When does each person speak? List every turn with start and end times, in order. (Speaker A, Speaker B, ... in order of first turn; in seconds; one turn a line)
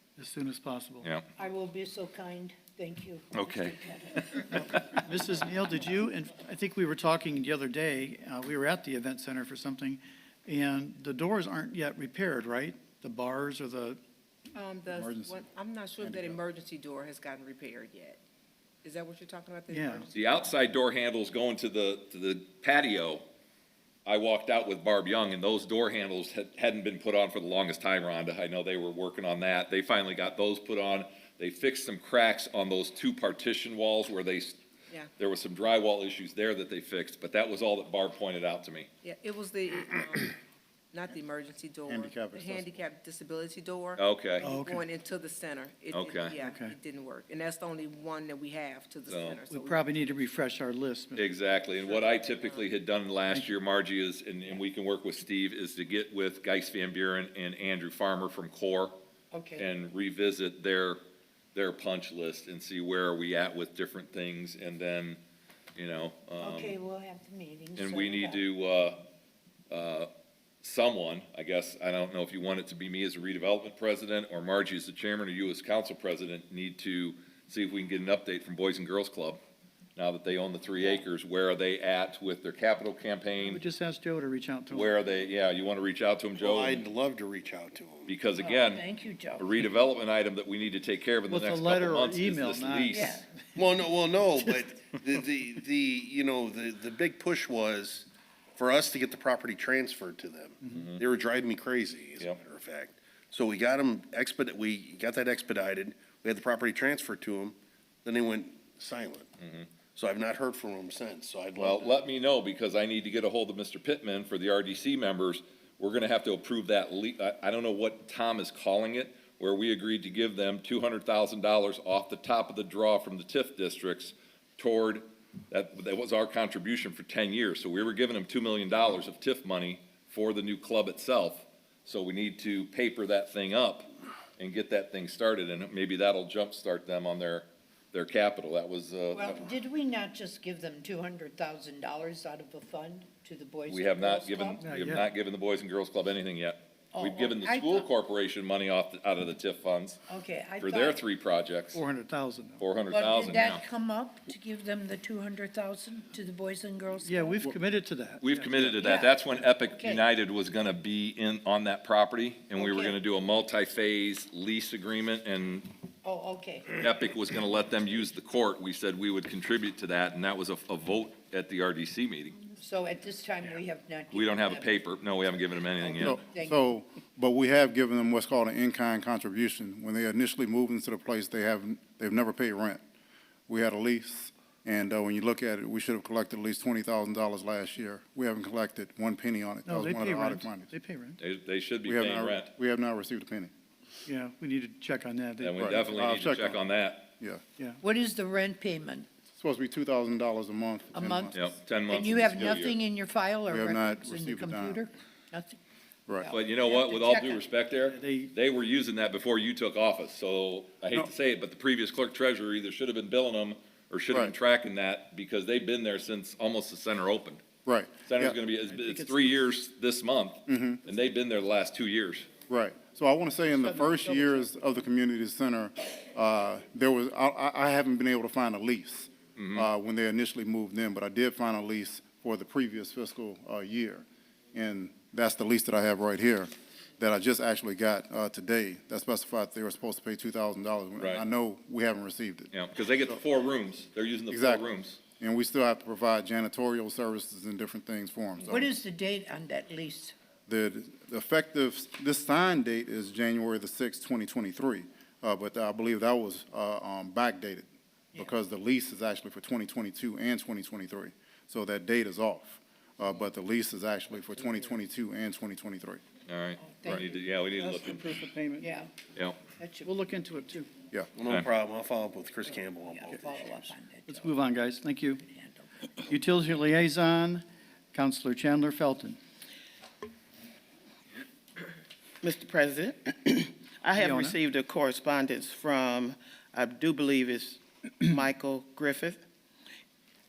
Speaker A: 0.2-1.1
Speaker B: 1.4-4.4
Speaker C: 3.3-4.5
Speaker A: 4.5-14.0
Speaker D: 14.5-18.2
Speaker E: 14.9-15.4
Speaker E: 16.0-16.4
Speaker D: 18.8-20.3
Speaker A: 19.7-20.1
Speaker C: 20.1-23.2
Speaker C: 24.1-34.6
Speaker C: 35.2-38.9
Speaker D: 39.0-40.4
Speaker D: 40.9-50.3
Speaker E: 41.9-42.8
Speaker C: 44.0-44.5
Speaker A: 44.4-44.8
Speaker C: 45.9-46.3
Speaker A: 46.4-46.8
Speaker C: 49.1-49.4
Speaker A: 49.5-51.2
Speaker C: 51.1-59.0
Speaker D: 51.7-52.7
Speaker B: 59.3-59.6
Speaker C: 59.5-61.0
Speaker C: 61.5-65.2
Speaker C: 65.8-66.8
Speaker B: 66.4-68.4
Speaker C: 67.8-69.1
Speaker C: 69.7-70.1
Speaker C: 70.6-79.4
Speaker C: 80.0-83.6
Speaker A: 83.4-84.9
Speaker C: 84.7-86.8
Speaker F: 86.4-88.1
Speaker C: 88.1-88.8
Speaker B: 88.4-89.6
Speaker C: 89.4-93.2
Speaker A: 91.3-93.2
Speaker B: 92.9-93.2
Speaker F: 93.5-109.3
Speaker C: 100.7-101.0
Speaker C: 109.4-109.7
Speaker F: 109.9-112.0
Speaker C: 111.6-139.5
Speaker B: 139.1-144.6
Speaker C: 143.7-150.0
Speaker A: 144.6-145.1
Speaker B: 146.9-147.9
Speaker B: 150.1-151.0
Speaker C: 150.6-151.8
Speaker A: 151.7-152.6
Speaker C: 152.6-153.6
Speaker B: 152.9-157.6
Speaker A: 157.0-158.7
Speaker C: 158.2-165.7
Speaker B: 158.8-160.0
Speaker B: 162.5-162.9
Speaker B: 166.0-166.8
Speaker C: 166.7-172.4
Speaker B: 172.5-175.0
Speaker C: 174.1-176.2
Speaker B: 175.8-176.6
Speaker E: 176.0-182.8
Speaker E: 183.5-190.7
Speaker A: 189.6-191.2
Speaker C: 191.2-192.5
Speaker E: 191.8-193.5
Speaker A: 194.1-195.9
Speaker C: 195.4-197.1
Speaker E: 195.6-197.4
Speaker B: 197.8-199.1
Speaker E: 199.3-201.4
Speaker B: 200.9-205.6
Speaker C: 201.3-202.8
Speaker E: 203.5-204.8
Speaker B: 206.2-207.4
Speaker C: 206.3-217.4
Speaker A: 207.9-208.3
Speaker E: 217.7-218.4
Speaker C: 218.1-222.3
Speaker A: 218.7-219.4
Speaker E: 220.5-220.8
Speaker E: 222.5-242.5
Speaker A: 223.5-224.5
Speaker C: 229.3-229.7
Speaker C: 241.0-241.2
Speaker C: 242.5-245.0
Speaker E: 244.3-244.7
Speaker E: 245.2-248.7
Speaker B: 248.4-250.1
Speaker E: 250.5-266.0
Speaker C: 266.3-268.2
Speaker B: 266.7-267.2
Speaker A: 267.6-268.7
Speaker B: 268.6-268.9
Speaker C: 269.1-269.4
Speaker B: 269.6-269.9
Speaker A: 269.8-270.7
Speaker F: 271.1-273.7
Speaker B: 272.9-274.3
Speaker A: 274.1-275.2
Speaker B: 275.2-275.8
Speaker A: 276.1-279.2
Speaker G: 282.2-289.2
Speaker A: 283.9-284.4